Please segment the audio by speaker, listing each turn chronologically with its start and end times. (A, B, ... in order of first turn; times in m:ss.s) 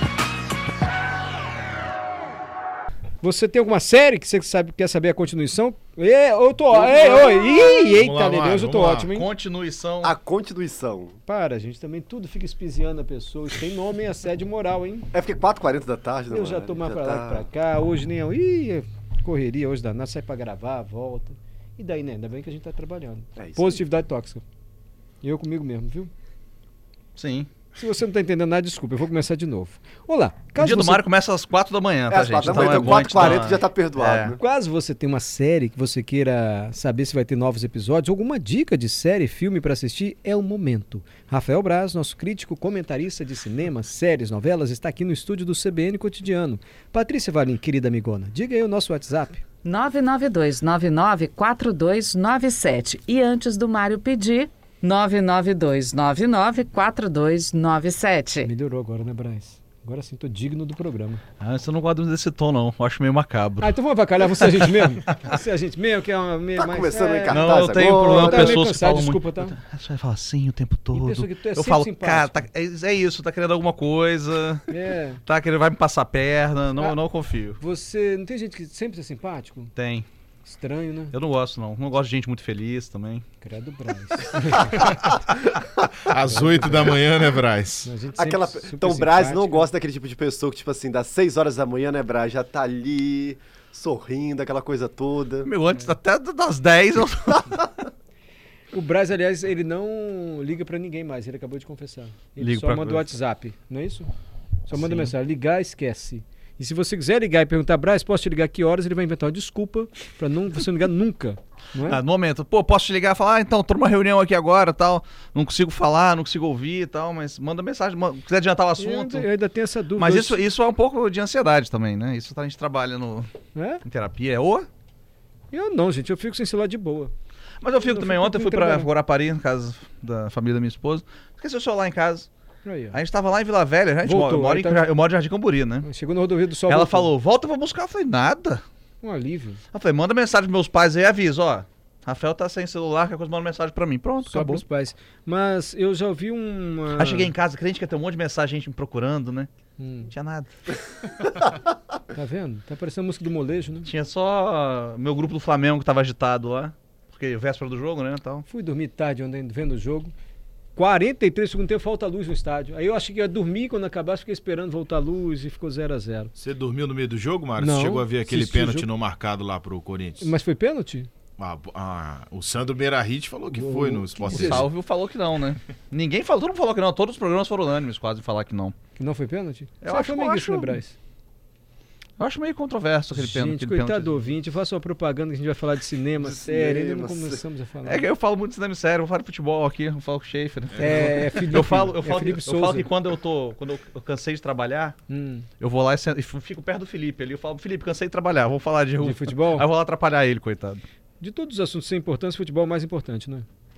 0:03.2-0:09.3 A
0:06.7-0:07.9 B
0:08.0-0:09.1 C
0:09.1-0:10.1 D
0:10.0-0:11.2 B
0:11.3-0:15.1 A
0:15.1-0:17.5 B
0:16.3-0:24.4 A
0:23.4-0:23.8 B
0:25.2-0:26.1 A
0:27.2-0:27.5 D
0:27.8-0:31.0 A
0:30.6-0:34.4 D
0:32.1-0:34.4 B
0:32.4-0:33.2 A
0:34.4-0:49.4 A
0:49.6-0:58.5 E
0:58.4-1:01.2 A
1:01.4-1:03.7 D
1:03.6-1:09.6 A
1:06.6-1:08.6 B
1:07.3-1:14.7 D
1:10.9-1:12.5 A
1:14.7-1:15.2 A
1:15.2-1:17.6 D
1:17.6-1:19.7 A
1:19.8-1:20.1 D
1:20.5-1:21.2 A
1:21.1-1:23.2 D
1:23.4-1:24.9 A
1:26.0-1:27.9 C
1:26.3-1:26.9 A
1:27.8-1:29.7 A
1:28.2-1:35.5 B
1:35.4-1:37.8 D
1:38.7-1:44.1 A
1:42.4-1:43.1 D
1:44.7-1:52.0 A
1:44.8-1:45.1 D
1:51.8-1:59.3 D
1:58.8-2:00.4 A
2:00.0-2:03.3 D
2:03.6-2:03.8 A
2:03.8-2:04.7 D
2:05.5-2:07.1 A
2:07.6-2:12.3 D
2:07.8-2:08.9 A
2:12.6-2:13.0 A
2:12.9-2:15.9 D
2:14.0-2:14.8 A
2:15.8-2:17.1 A
2:16.7-2:18.6 D
2:19.0-2:19.6 A
2:19.7-2:24.6 D
2:24.3-2:27.3 A
2:27.0-2:29.5 D
2:29.8-2:30.1 A
2:30.1-2:30.5 D
2:32.1-2:33.9 A
2:33.8-2:38.4 D
2:38.5-2:40.1 A
2:40.8-2:46.3 A
2:46.4-2:50.3 C
2:47.6-2:48.9 A
2:50.2-2:51.1 A
2:51.4-2:54.7 C
2:53.5-2:54.6 A
2:54.3-2:58.8 D
2:59.0-3:01.0 A
2:59.8-3:00.8 D
3:02.2-3:04.2 D
3:03.1-3:08.1 A
3:06.2-3:07.4 B
3:07.8-3:15.0 D
3:10.8-3:12.9 A
3:15.1-3:15.5 A
3:15.6-3:20.8 D
3:19.0-3:19.7 A
3:21.2-3:23.5 A